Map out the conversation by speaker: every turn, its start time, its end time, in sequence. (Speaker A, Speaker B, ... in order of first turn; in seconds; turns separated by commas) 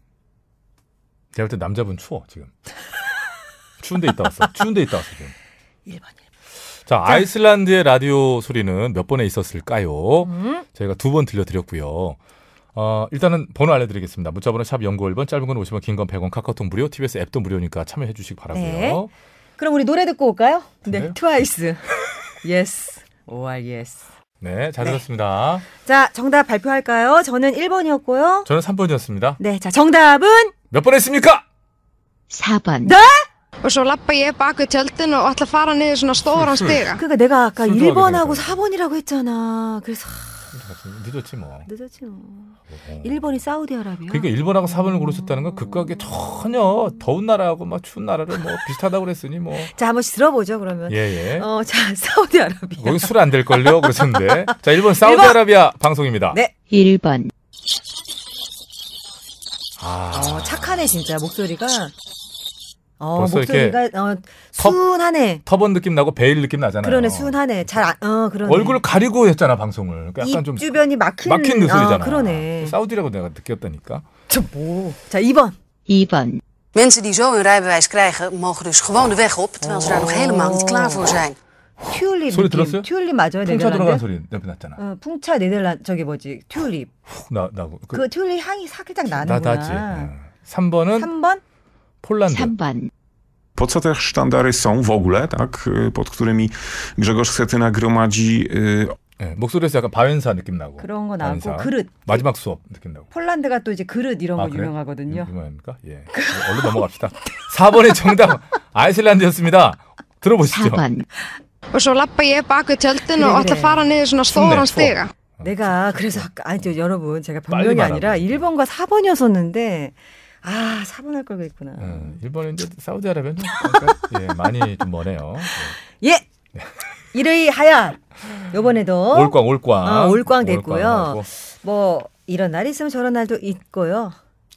Speaker A: 1.3-2.5, Speaker A: 3.8-5.3, Speaker B: 5.9-6.2, Speaker A: 6.9-12.2, Speaker B: 10.2-10.6, Speaker A: 12.8-19.1, Speaker B: 18.5-19.0, Speaker B: 19.6-21.8, Speaker A: 20.9-21.2, Speaker B: 22.4-24.0, Speaker A: 24.4-25.6, Speaker B: 25.8-28.5, Speaker A: 28.5-29.4, Speaker B: 29.4-30.5, Speaker A: 30.7-31.4, Speaker C: 32.3-33.0, Speaker B: 32.9-33.2, Speaker D: 33.6-37.0, Speaker A: 36.2-37.0, Speaker B: 37.0-40.3, Speaker A: 37.6-38.6, Speaker A: 40.5-41.7, Speaker B: 41.7-45.9, Speaker A: 42.7-43.3, Speaker A: 44.1-49.7, Speaker B: 49.8-55.4, Speaker A: 50.9-51.5, Speaker A: 52.8-56.4, Speaker C: 56.7-57.3, Speaker A: 59.8-61.0, Speaker B: 60.1-61.9, Speaker B: 63.0-65.4, Speaker A: 63.2-63.8, Speaker A: 65.5-67.8, Speaker B: 66.8-68.8, Speaker A: 68.4-74.0, Speaker B: 70.2-72.8, Speaker B: 74.3-75.5, Speaker C: 75.9-76.4, Speaker E: 76.7-81.4, Speaker B: 79.6-81.1, Speaker B: 81.8-84.0, Speaker A: 82.3-82.9, Speaker A: 83.4-84.8, Speaker B: 84.8-86.9, Speaker A: 87.1-88.0, Speaker B: 87.9-90.1, Speaker A: 89.1-91.1, Speaker B: 91.0-91.4, Speaker A: 92.0-92.5, Speaker C: 92.3-92.9, Speaker F: 93.6-99.0, Speaker A: 99.2-103.1, Speaker B: 100.8-102.2, Speaker B: 103.1-105.3, Speaker A: 104.4-110.8, Speaker B: 106.2-106.7, Speaker C: 110.5-111.1, Speaker D: 111.7-115.1, Speaker B: 113.2-113.9, Speaker A: 114.3-116.3, Speaker B: 115.4-122.2, Speaker A: 117.5-118.5, Speaker A: 121.8-125.8, Speaker B: 123.6-124.0, Speaker B: 127.1-134.2, Speaker A: 129.1-131.3